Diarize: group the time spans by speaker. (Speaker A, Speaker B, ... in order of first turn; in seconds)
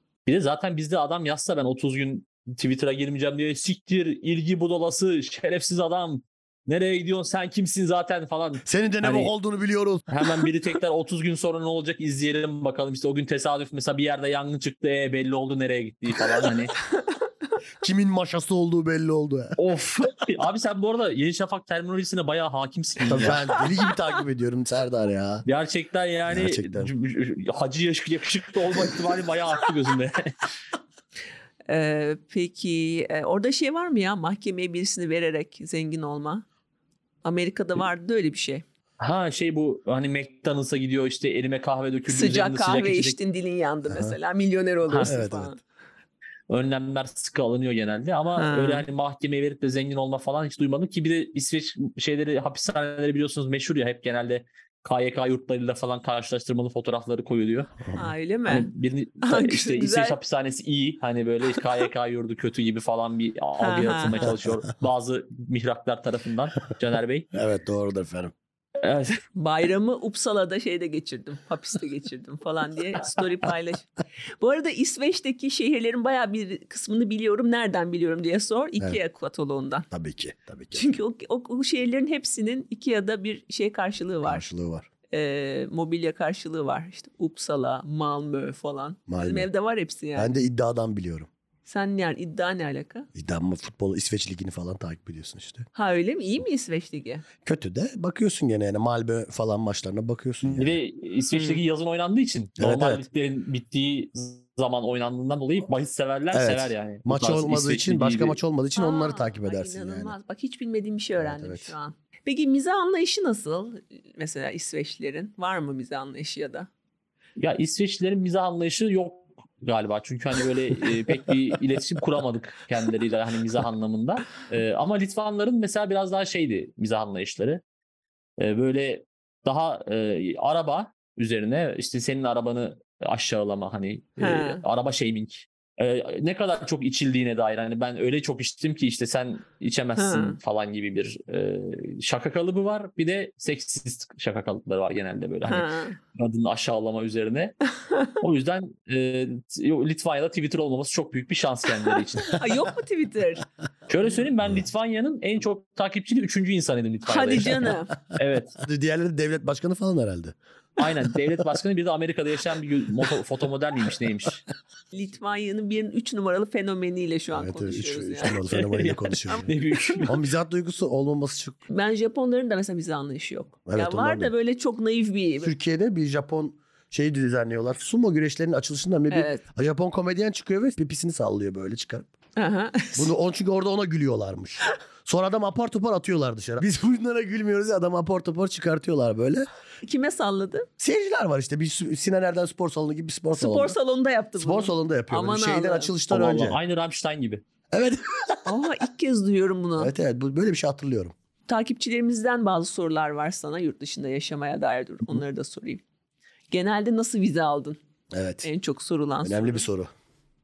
Speaker A: 0.3-9.3, 10.1-16.8, 19.6-23.6, 25.5-30.5, 39.0-43.2, 44.9-45.2, 46.5-57.9, 58.5-67.3, 68.8-69.2, 100.5-108.4, 117.4-127.6, 128.4-147.6, 148.2-152.4, 153.9-158.6, 160.8-164.4, 168.5-170.2, 196.1-197.4
Speaker B: 8.7-10.1, 17.8-19.6, 23.1-25.4, 26.3-26.9, 43.9-44.2, 45.0-45.5, 67.3-68.3, 79.9-80.9, 84.2-84.9, 89.1-89.5, 90.2-91.3, 93.1-95.7, 97.4-100.8, 102.6-103.0, 106.3-110.1, 111.2-111.7, 158.6-160.4, 167.3-169.5, 170.0-171.6, 173.7-174.3, 175.4-182.1, 183.0-189.5, 190.8-193.8, 194.4-196.6, 197.7-198.4, 199.8-201.1, 208.1-208.5, 209.2-209.9
Speaker C: 31.7-36.5, 37.2-38.6, 42.1-45.6, 48.4-48.9, 57.9-58.7, 59.2-60.2, 63.6-64.3, 69.4-79.9, 80.7-84.5, 85.1-90.3, 91.7-93.1, 95.7-97.2, 101.3-101.6, 108.8-116.7, 134.2-134.6, 140.0-140.4, 145.5-146.0, 147.8-148.2, 152.3-153.5, 157.1-157.9, 164.9-168.4, 171.7-175.5, 179.1-179.4, 182.4-183.1, 189.8-190.7, 193.4-195.9, 198.4-199.9, 201.5-205.8, 206.5-207.8, 208.4-209.7